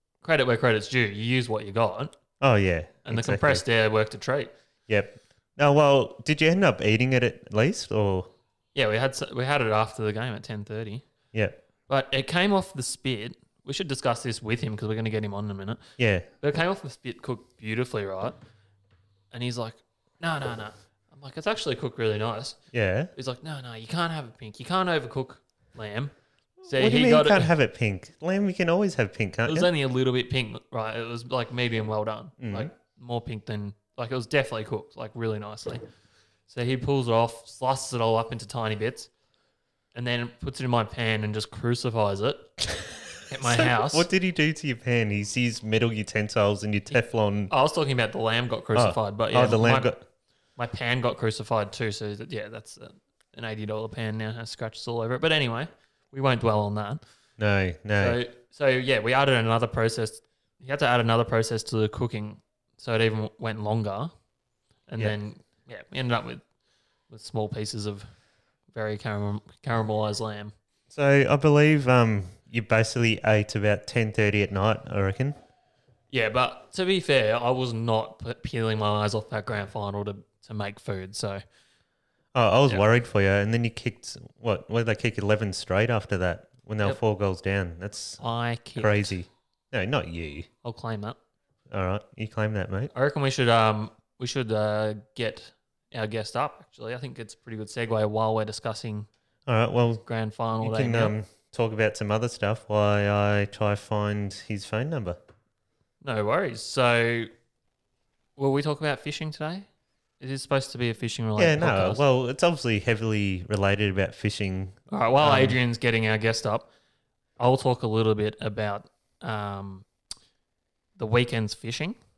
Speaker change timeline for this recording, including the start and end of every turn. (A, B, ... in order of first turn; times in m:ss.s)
0:00.2-0:02.1 A
0:02.4-0:03.6 B
0:03.0-0:04.5 A
0:04.9-0:08.3 B
0:08.8-0:11.0 A
0:11.3-0:11.6 B
0:11.9-0:15.8 A
0:16.0-0:16.3 B
0:16.4-0:18.4 A
0:19.3-0:22.6 A
0:22.7-0:23.1 B
0:23.1-0:26.1 A
0:26.6-0:29.7 B
0:26.7-0:27.5 A
0:29.5-0:35.8 A
0:32.4-0:32.7 B
0:36.5-0:39.1 A
0:40.0-0:42.5 A
0:42.7-0:47.5 B
0:43.3-0:44.1 A
0:47.5-0:49.9 A
0:48.8-0:50.0 B
0:50.6-0:57.0 A
0:57.4-0:58.2 B
0:58.0-1:04.1 A
1:04.9-1:06.4 A
1:07.1-1:08.1 A
1:08.7-1:10.5 A
1:10.9-1:15.4 B
1:16.1-1:21.4 A
1:22.3-1:28.2 B
1:28.2-1:29.1 A
1:28.8-1:30.5 B
1:30.6-1:31.2 A
1:31.7-1:32.9 B
1:32.9-1:39.1 A
1:39.5-1:40.0 B
1:40.0-1:41.1 A
1:40.6-1:45.2 B
1:46.0-1:47.3 A
1:48.4-1:49.7 A
1:50.2-1:52.0 A
1:51.4-1:55.6 B
1:54.9-1:56.7 A
1:57.4-1:59.9 A
2:01.0-2:02.0 A